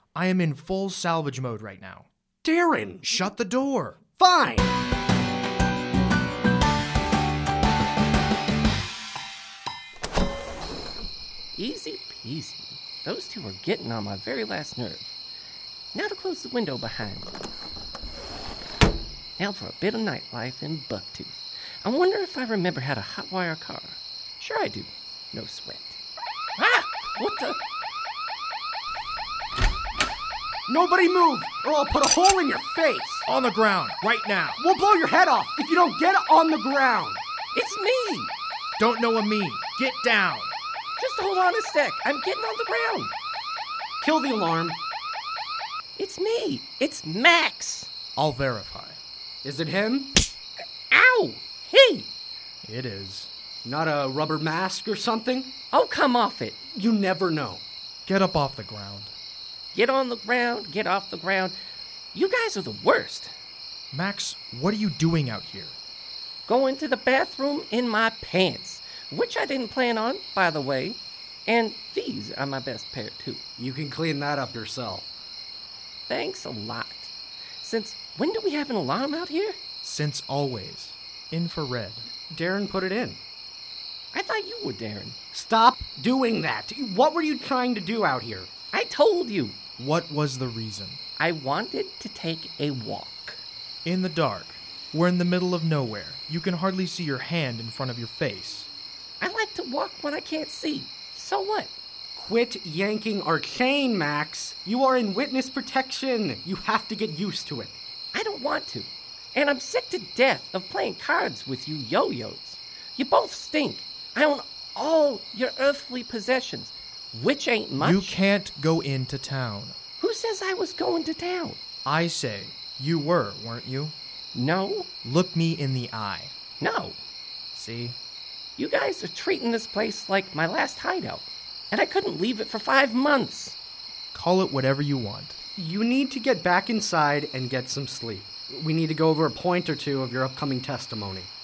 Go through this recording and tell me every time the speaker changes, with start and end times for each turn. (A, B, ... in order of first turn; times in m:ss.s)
0:00.1-0:02.1 A
0:02.4-0:03.1 B
0:03.0-0:04.0 A
0:04.2-0:04.8 B
0:11.6-0:15.1 C
0:15.9-0:17.3 C
0:19.4-0:26.0 C
0:26.6-0:27.6 C
0:30.7-0:33.2 B
0:33.2-0:34.6 A
0:34.6-0:37.2 B
0:37.5-0:38.3 C
0:38.8-0:40.5 A
0:41.0-0:43.1 C
0:44.0-0:44.8 B
0:46.0-0:47.9 C
0:48.2-0:49.0 A
0:49.4-0:50.1 B
0:50.9-0:52.1 C
0:52.6-0:53.3 A
0:53.6-0:55.5 B
0:55.7-0:56.6 C
0:56.7-0:57.6 B
0:58.0-0:59.1 A
0:59.7-1:01.6 C
1:02.1-1:03.3 C
1:03.9-1:05.8 A
1:06.5-1:13.4 C
1:13.6-1:15.1 B
1:16.1-1:17.1 C
1:17.6-1:19.6 C
1:19.8-1:22.0 A
1:22.3-1:23.2 B
1:24.1-1:25.2 C
1:25.3-1:28.5 B
1:28.7-1:29.6 C
1:29.8-1:31.0 A
1:31.2-1:33.4 C
1:33.8-1:38.7 A
1:39.2-1:41.7 C
1:42.1-1:47.8 B
1:48.1-1:58.2 C
1:57.8-1:59.8 A
2:00.0-2:01.6 C
2:01.8-2:04.0 A
2:04.4-2:04.9 C
2:05.0-2:06.3 A
2:06.6-2:07.0 C
2:07.5-2:08.0 A
2:08.6-2:13.6 C
2:14.1-2:15.4 A
2:15.6-2:21.3 B